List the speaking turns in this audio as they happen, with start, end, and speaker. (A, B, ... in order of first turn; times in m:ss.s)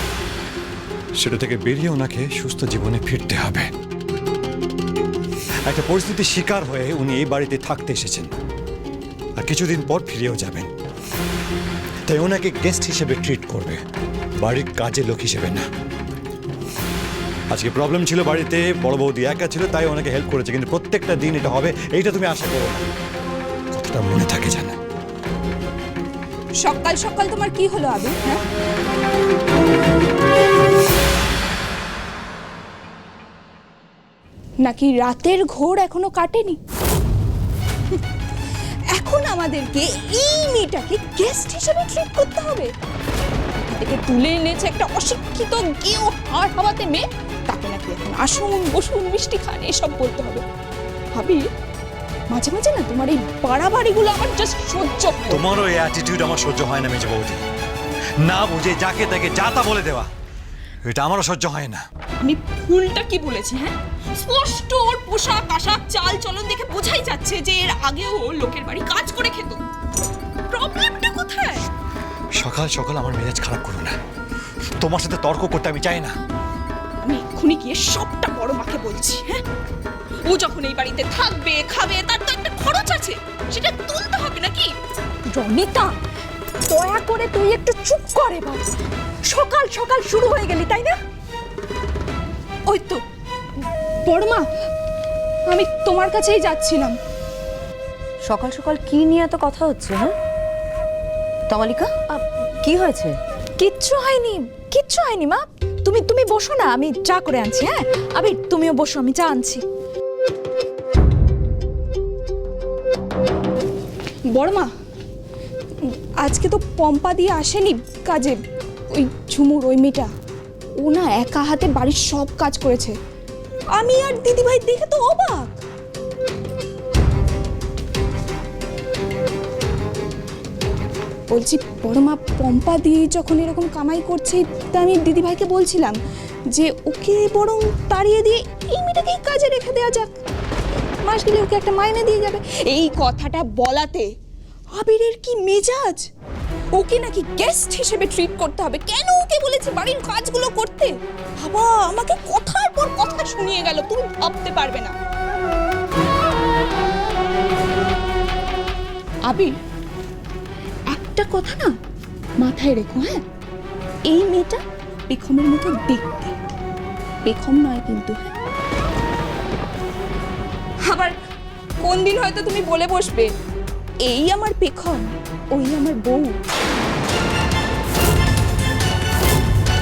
0:01.2-0:03.7 A
0:05.7-0:08.3 A
0:09.4-0:10.7 A
0:12.1-0:13.8 A
0:14.4-0:15.7 A
0:17.5-0:22.9 A
0:23.7-0:24.8 A
0:26.6-0:28.4 B
0:34.6-0:36.6 B
0:38.9-0:42.7 B
0:43.6-0:50.4 B
0:51.2-0:51.5 B
0:52.3-0:55.5 B
0:55.3-0:57.4 A
0:58.2-1:00.1 A
1:00.8-1:01.8 A
1:02.2-1:09.6 B
1:10.5-1:11.6 B
1:12.4-1:14.0 A
1:14.8-1:16.2 A
1:17.0-1:19.4 B
1:20.2-1:24.7 B
1:25.3-1:25.7 B
1:25.4-1:25.9 C
1:26.7-1:28.6 C
1:29.3-1:31.0 C
1:32.7-1:33.0 B
1:34.1-1:34.4 B
1:35.5-1:37.0 B
1:38.3-1:40.1 D
1:41.5-1:42.0 D
1:42.6-1:43.2 D
1:43.6-1:49.6 C
1:54.4-1:54.7 B
1:55.8-1:58.4 B
1:58.9-2:00.1 B
2:00.8-2:03.0 B
2:03.8-2:05.6 B
2:11.3-2:16.0 B
2:16.5-2:20.1 B
2:21.0-2:24.1 B
2:24.7-2:26.1 B
2:26.8-2:34.9 B
2:39.3-2:39.5 B
2:40.9-2:41.7 B
2:42.4-2:43.2 B
2:44.1-2:46.4 B
2:47.3-2:48.3 B
2:50.8-2:51.2 B
2:51.8-2:53.3 B
2:54.0-2:56.3 B